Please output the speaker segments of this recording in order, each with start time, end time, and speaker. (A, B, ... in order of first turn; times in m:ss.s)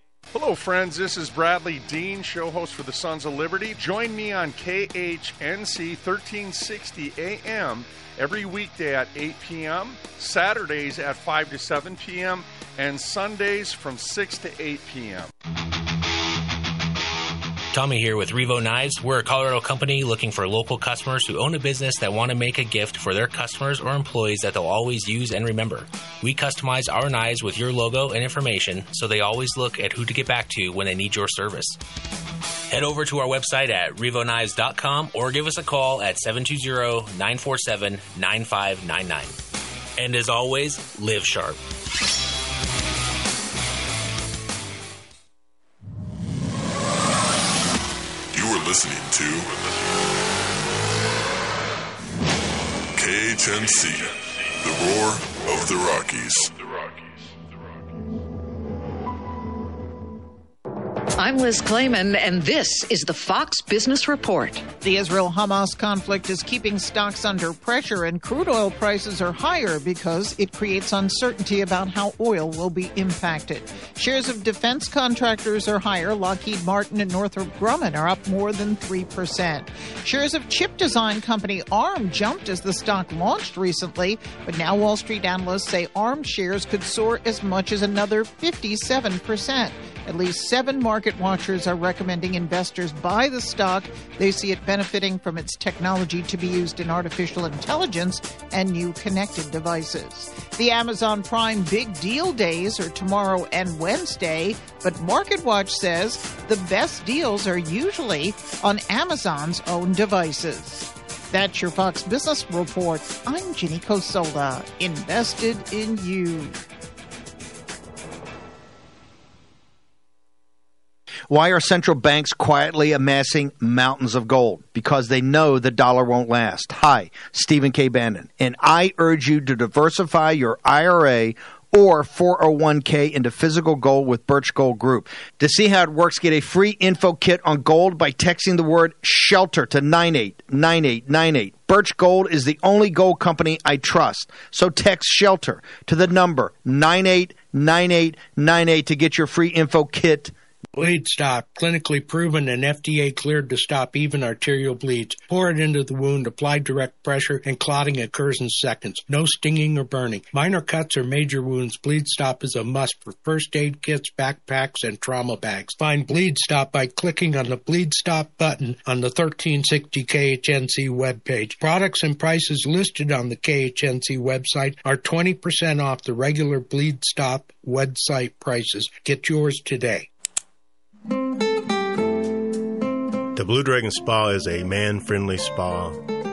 0:00.4-0:15.3 A
0:17.7-0:31.8 B
0:32.7-0:39.4 B
0:40.0-0:41.6 B
0:48.3-0:49.7 C
0:52.9-0:57.0 C
1:01.2-1:04.7 D
1:04.8-1:56.6 E
2:01.3-2:30.3 F
2:30.8-3:00.1 G
3:03.3-3:06.0 H